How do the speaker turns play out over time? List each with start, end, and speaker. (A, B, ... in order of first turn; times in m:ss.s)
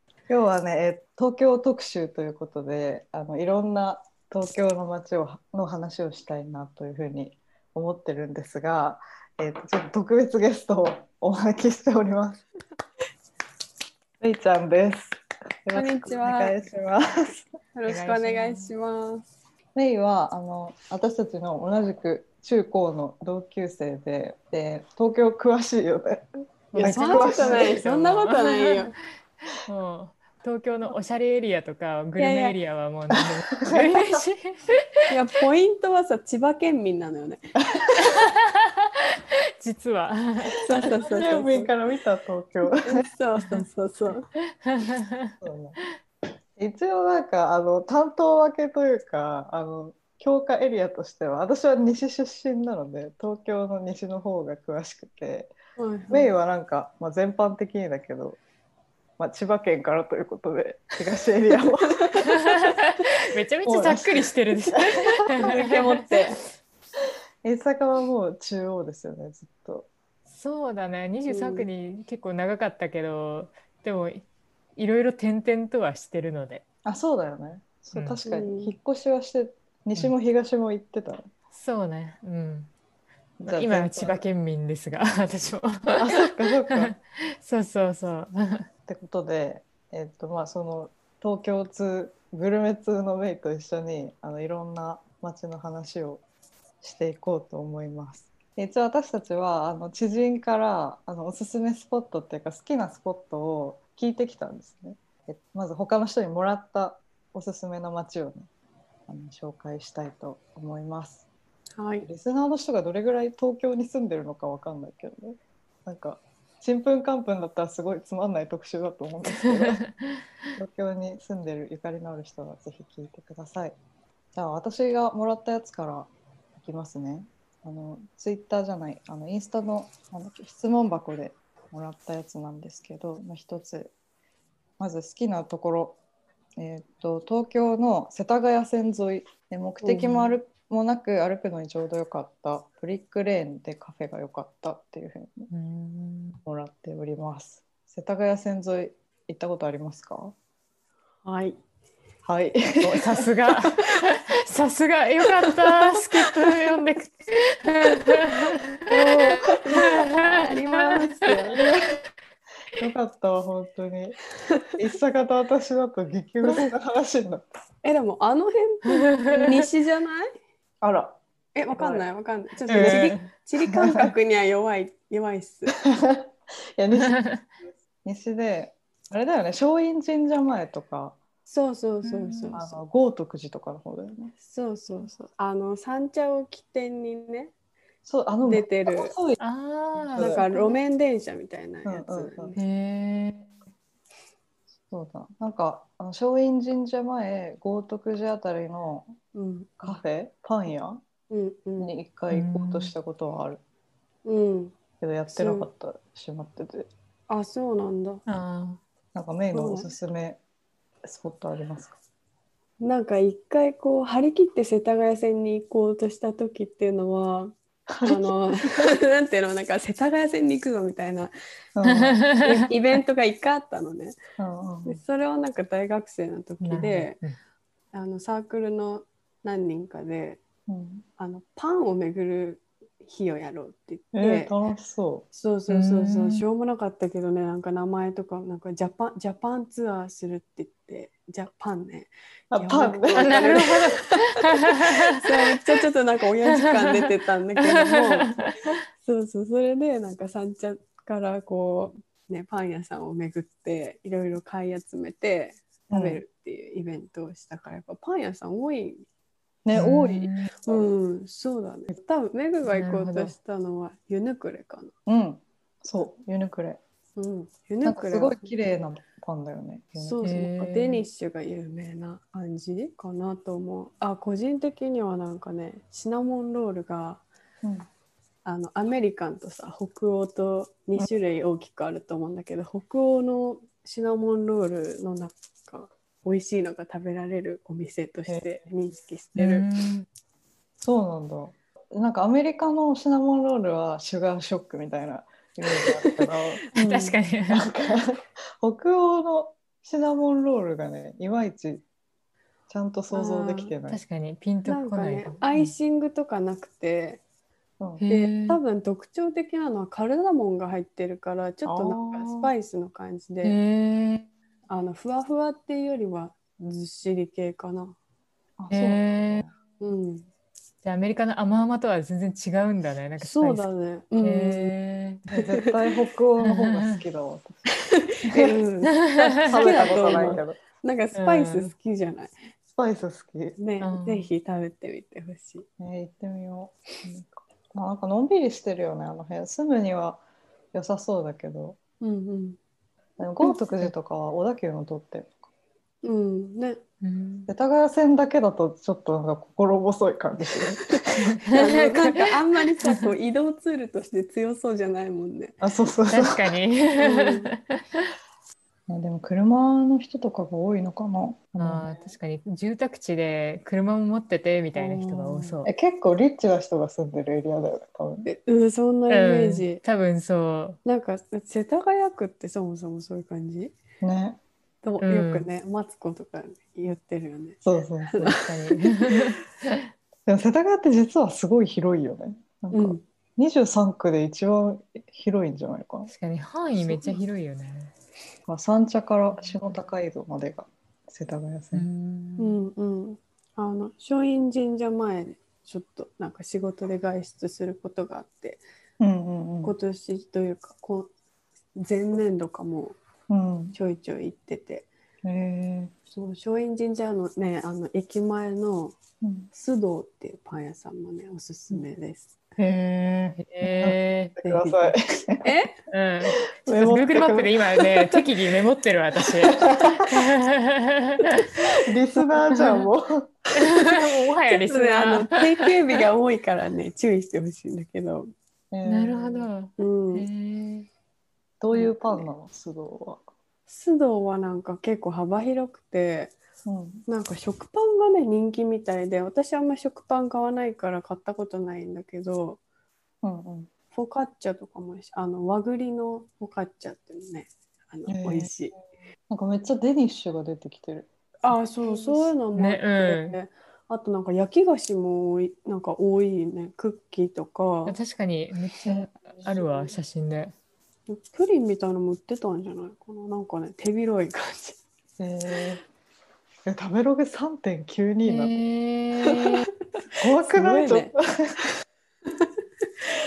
0:00.3-0:12.4 A
0:14.2-0:17.5 A
0:15.7-0:16.5 B
0:17.8-0:19.2 B
0:17.8-0:18.7 C
0:19.7-0:27.8 A
0:26.7-0:28.8 C
0:26.8-0:29.0 B
0:29.5-0:34.8 C
0:32.2-0:32.6 B
0:33.7-0:34.3 A
0:35.1-0:37.5 B
0:37.8-0:38.1 A
0:38.0-0:38.9 C
0:39.6-0:40.8 C
0:40.6-0:41.7 B
0:40.8-0:42.8 A
0:42.8-0:44.3 B
0:43.4-0:43.6 C
0:44.6-0:45.3 C
0:45.4-0:45.8 A
0:46.6-0:55.5 A
0:55.8-0:56.3 B
0:56.1-0:58.4 A
0:59.2-1:02.3 A
1:02.0-1:02.4 B
1:02.4-1:06.1 C
1:03.6-1:05.5 A
1:05.3-1:06.4 B
1:07.4-1:09.9 A
1:10.3-1:16.6 C
1:11.3-1:11.7 B
1:16.8-1:21.3 A
1:17.9-1:18.2 C
1:18.2-1:18.7 B
1:21.5-1:22.7 C
1:23.4-1:24.2 A
1:23.4-1:28.7 C
1:25.9-1:26.9 A
1:28.9-1:36.2 A
1:36.8-1:48.5 A
1:49.1-1:51.2 A
1:51.8-1:52.1 B
1:52.0-1:59.8 A
1:59.4-2:00.2 C
2:00.6-2:03.8 A
2:04.3-2:13.9 A
2:14.8-2:16.0 A
2:16.6-2:25.5 A
2:20.0-2:20.3 C
2:25.5-2:26.4 C
2:26.4-2:30.3 A
2:31.2-2:31.6 B
2:32.2-2:33.3 A
2:32.8-2:38.8 C
2:35.4-2:36.3 B
2:38.9-2:41.7 B
2:39.7-2:41.0 C
2:41.5-2:41.8 A
2:42.8-2:44.2 A
2:44.8-2:47.4 A
2:47.8-2:50.3 B
2:49.1-2:49.5 C
2:50.8-2:51.2 A
2:51.5-2:55.7 B
2:51.7-2:52.1 A
2:52.7-2:53.3 C
2:52.7-2:53.1 A
2:53.7-2:54.1 A
2:55.8-2:57.2 A
2:57.0-2:57.4 C
2:58.0-3:01.2 A
3:01.5-3:02.8 B
3:02.0-3:02.6 C
3:02.5-3:04.3 A
3:04.4-3:07.5 B
3:08.0-3:09.4 A
3:08.4-3:09.1 B
3:09.4-3:10.4 C
3:10.0-3:10.8 A
3:10.1-3:12.6 B
3:11.8-3:12.6 A
3:12.5-3:13.5 C
3:14.9-3:19.1 A
3:19.3-3:20.0 B
3:19.8-3:21.0 A
3:21.3-3:21.9 B
3:21.8-3:23.6 A
3:22.3-3:22.9 C
3:24.2-3:24.8 B
3:25.0-3:26.9 A
3:25.3-3:25.7 B
3:27.3-3:28.2 B
3:28.3-3:28.8 C
3:29.1-3:30.4 A
3:29.5-3:29.9 B
3:31.0-3:32.0 A
3:32.8-3:41.3 B
3:37.9-3:38.3 A
3:41.8-3:42.2 A
3:41.8-3:42.6 C
3:42.4-3:44.2 B
3:44.4-3:45.0 A
3:44.8-3:47.2 B
3:46.6-3:47.3 C
3:47.9-3:50.4 B
3:50.7-3:51.0 A
3:51.2-3:54.5 B
3:54.1-3:55.2 A
3:55.3-4:19.0 B
3:55.7-3:56.4 C
4:02.5-4:03.8 A
4:03.2-4:05.0 C
4:06.4-4:07.0 C
4:07.7-4:08.7 C
4:15.9-4:16.2 A
4:19.6-4:20.9 A
4:19.7-4:20.5 C
4:20.6-4:24.9 B
4:22.6-4:23.3 C
4:25.0-4:26.8 A
4:27.2-4:28.5 B
4:27.8-4:30.2 A
4:30.0-4:37.2 B
4:30.2-4:31.0 C
4:38.4-4:49.6 B
4:48.3-4:48.6 A
4:49.4-4:50.1 C
4:50.8-4:56.6 A
4:55.7-4:56.1 B
4:56.7-4:57.2 B
4:56.7-4:57.6 C
4:57.5-5:01.8 A
5:02.7-5:04.0 A
5:03.1-5:03.7 B
5:03.9-5:05.7 C
5:04.6-5:07.2 B
5:08.0-5:08.6 C
5:08.1-5:13.6 B
5:11.6-5:12.5 A
5:13.4-5:14.3 C
5:14.7-5:18.0 B
5:18.6-5:19.5 A
5:18.7-5:19.4 C
5:19.8-5:20.3 B
5:20.8-5:23.7 C
5:23.2-5:24.7 B
5:24.2-5:25.3 C
5:25.3-5:27.7 A
5:25.4-5:25.7 B
5:26.4-5:27.0 C
5:27.7-5:32.3 B
5:28.3-5:28.5 A
5:28.9-5:30.4 C
5:29.2-5:30.6 A
5:31.1-5:31.7 C
5:32.7-5:33.6 A
5:33.6-5:35.6 B
5:33.8-5:34.3 C
5:35.8-5:41.8 A
5:42.0-5:42.6 B
5:43.2-5:45.4 A
5:46.0-5:46.8 B
5:47.0-5:47.5 C
5:47.5-5:51.2 A
5:51.0-5:55.6 B
5:51.2-5:52.2 C
5:55.6-5:56.6 A
5:56.1-5:58.1 C
5:57.0-5:57.5 B
5:58.9-6:02.1 A
6:01.6-6:05.7 C
6:04.7-6:05.6 B
6:05.6-6:08.2 A
6:08.2-6:09.8 B
6:09.1-6:10.8 C
6:10.8-6:13.7 B
6:14.0-6:14.4 A
6:14.8-6:18.8 B
6:15.0-6:15.5 C
6:17.6-6:18.4 A
6:18.3-6:19.8 C
6:20.2-6:26.1 A
6:22.7-6:23.0 B
6:26.1-6:27.9 C
6:26.9-6:27.2 B
6:28.5-6:31.9 A
6:31.7-6:32.6 C
6:32.4-6:38.6 B
6:39.0-6:39.7 A
6:39.6-6:41.1 B
6:41.7-6:43.0 B
6:43.3-6:43.7 A
6:43.7-6:44.9 B
6:45.2-6:45.9 A
6:46.1-6:49.0 B
6:49.2-6:49.5 A
6:49.5-6:52.3 B
6:52.6-6:55.4 A
6:53.4-6:54.4 C
6:54.4-6:55.8 B
6:55.9-7:01.5 C
6:56.6-6:57.6 A
6:57.9-6:58.2 B
6:59.4-7:00.1 A
7:01.8-7:03.3 A
7:02.5-7:02.8 C
7:03.6-7:05.4 C
7:04.4-7:08.3 B
7:08.7-7:09.5 A
7:08.8-7:10.9 C
7:09.8-7:10.3 B
7:11.6-7:13.2 A
7:11.7-7:12.2 B
7:13.7-7:16.4 B
7:16.6-7:17.0 A
7:17.1-7:22.6 B
7:23.2-7:23.7 A
7:23.9-7:28.7 B
7:28.1-7:28.6 A
7:29.3-7:32.3 A
7:31.4-7:38.0 B
7:32.5-7:33.4 C
7:37.8-7:40.5 C
7:38.8-7:39.5 A
7:41.1-7:44.8 B
7:45.2-7:45.8 A
7:46.6-7:48.5 A
7:48.3-7:49.7 C
7:50.2-7:51.6 A
7:50.5-7:51.1 B